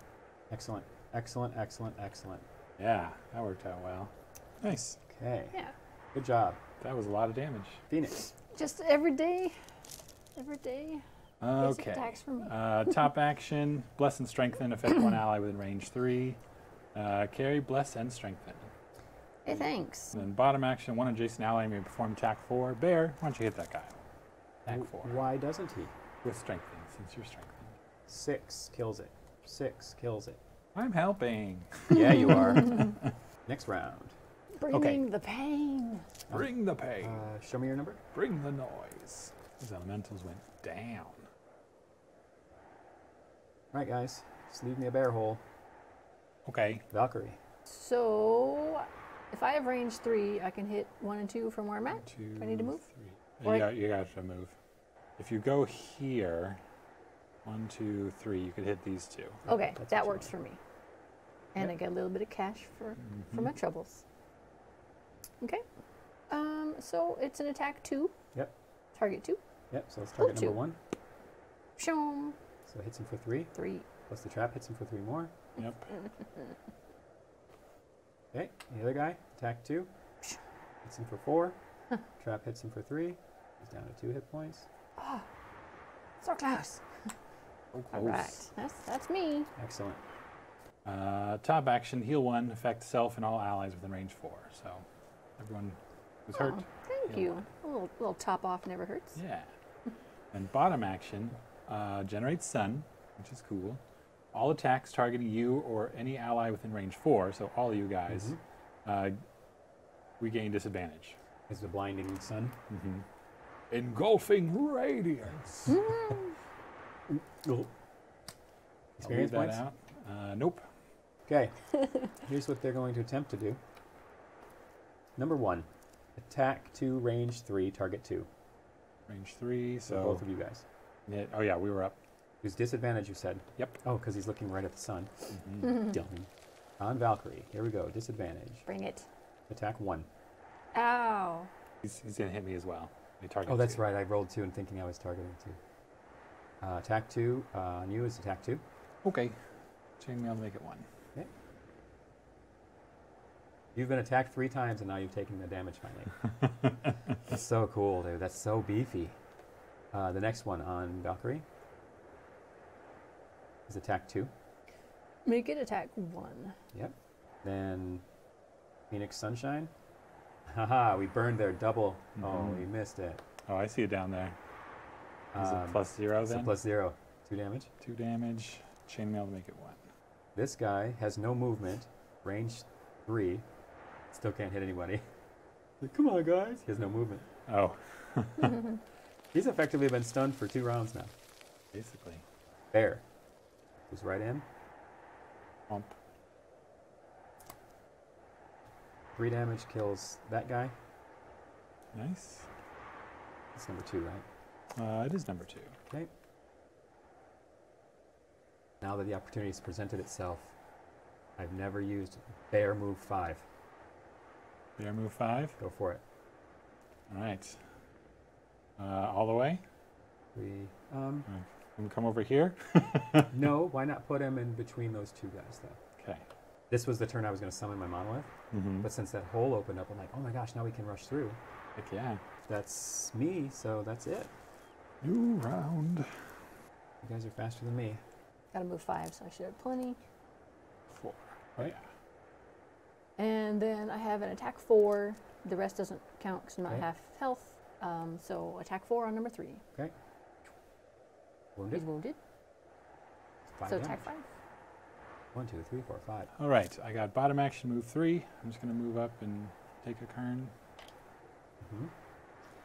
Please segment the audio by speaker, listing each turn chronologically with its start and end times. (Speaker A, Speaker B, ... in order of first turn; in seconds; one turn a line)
Speaker A: 0.5-2.4
Speaker B: 2.8-5.0
Speaker A: 5.0-5.6
Speaker A: 6.1-6.6
Speaker B: 6.8-7.8
Speaker A: 7.9-8.3
Speaker C: 8.5-9.5
Speaker C: 10.3-11.0
Speaker B: 11.4-16.4
Speaker C: 11.6-13.0
Speaker B: 16.9-18.7
Speaker C: 19.4-20.2
Speaker B: 19.5-24.0
Speaker A: 24.6-25.9
Speaker B: 24.7-25.2
Speaker B: 26.2-27.7
Speaker A: 28.1-30.4
Speaker B: 30.7-33.1
Speaker A: 31.9-34.1
Speaker C: 34.6-36.1
Speaker B: 34.7-35.0
Speaker B: 36.3-37.2
Speaker A: 37.0-38.0
Speaker B: 38.1-41.3
Speaker A: 43.7-45.4
Speaker B: 46.4-46.9
Speaker A: 46.9-47.4
Speaker C: 47.6-52.8
Speaker B: 52.0-54.5
Speaker B: 55.2-56.6
Speaker B: 57.4-59.4
Speaker A: 59.5-60.3
Speaker C: 59.5-60.6
Speaker C: 61.5-64.0
Speaker B: 63.0-63.5
Speaker C: 66.3-68.1
Speaker C: 68.9-69.4
Speaker A: 69.7-70.8
Speaker C: 70.2-70.6
Speaker C: 71.8-72.4
Speaker A: 72.7-73.5
Speaker C: 73.5-73.8
Speaker A: 74.1-75.3
Speaker B: 75.6-75.9
Speaker C: 75.9-76.5
Speaker A: 78.3-79.9
Speaker A: 80.8-81.5
Speaker A: 82.2-84.7
Speaker C: 85.0-85.3
Speaker C: 86.2-86.8
Speaker B: 87.7-88.4
Speaker C: 87.9-89.5
Speaker A: 89.5-90.0
Speaker B: 90.8-94.8
Speaker B: 95.4-97.4
Speaker C: 96.3-99.2
Speaker B: 99.2-99.5
Speaker B: 100.3-103.8
Speaker B: 104.3-109.2
Speaker A: 108.1-108.4
Speaker B: 110.2-111.2
Speaker A: 111.5-112.6
Speaker B: 112.7-113.0
Speaker B: 113.7-115.8
Speaker C: 115.7-116.3
Speaker A: 117.1-117.7
Speaker A: 119.0-119.6
Speaker B: 119.0-120.6
Speaker A: 121.3-121.5
Speaker A: 122.1-123.6
Speaker A: 125.2-128.3
Speaker B: 129.1-130.2
Speaker A: 129.8-130.6
Speaker B: 131.1-132.0
Speaker A: 132.4-136.3
Speaker B: 135.3-135.8
Speaker A: 136.8-138.6
Speaker C: 138.7-139.1
Speaker A: 139.5-140.1
Speaker C: 140.7-141.5
Speaker B: 141.8-143.8
Speaker A: 143.4-145.6
Speaker A: 146.6-148.6
Speaker B: 149.0-149.4
Speaker B: 150.0-150.9
Speaker A: 153.7-156.2
Speaker B: 156.4-156.7
Speaker A: 157.2-159.2
Speaker A: 159.9-161.4
Speaker A: 163.7-164.3
Speaker C: 165.2-166.6
Speaker A: 166.7-168.0
Speaker A: 168.9-169.7
Speaker A: 170.5-173.2
Speaker B: 172.2-172.7
Speaker B: 173.4-174.4
Speaker A: 175.3-177.7
Speaker B: 175.3-176.5
Speaker B: 177.8-179.8
Speaker A: 180.3-183.4
Speaker A: 184.1-185.0
Speaker A: 185.8-187.2
Speaker B: 187.5-188.7
Speaker A: 189.3-191.1
Speaker B: 191.7-192.2
Speaker A: 192.7-193.0
Speaker A: 193.9-194.4
Speaker B: 195.7-196.0
Speaker A: 199.2-200.7
Speaker B: 201.9-202.5
Speaker A: 203.5-204.2
Speaker B: 204.7-205.7
Speaker A: 208.8-210.5
Speaker A: 211.4-213.4
Speaker B: 214.8-215.6
Speaker A: 215.6-216.0
Speaker B: 217.1-217.6
Speaker B: 218.8-219.6
Speaker A: 220.3-221.3
Speaker B: 221.3-223.3
Speaker A: 223.3-225.8
Speaker B: 226.0-226.2
Speaker A: 226.7-231.4
Speaker B: 228.5-228.9
Speaker B: 231.8-232.2
Speaker A: 232.5-234.3
Speaker B: 235.0-236.5
Speaker A: 237.0-238.0
Speaker C: 238.5-240.0
Speaker B: 240.9-241.8
Speaker C: 243.2-249.6
Speaker A: 251.6-251.8
Speaker C: 251.7-252.2
Speaker A: 253.5-254.1
Speaker C: 253.7-254.2
Speaker A: 255.3-256.3
Speaker B: 256.4-260.5
Speaker A: 261.6-261.9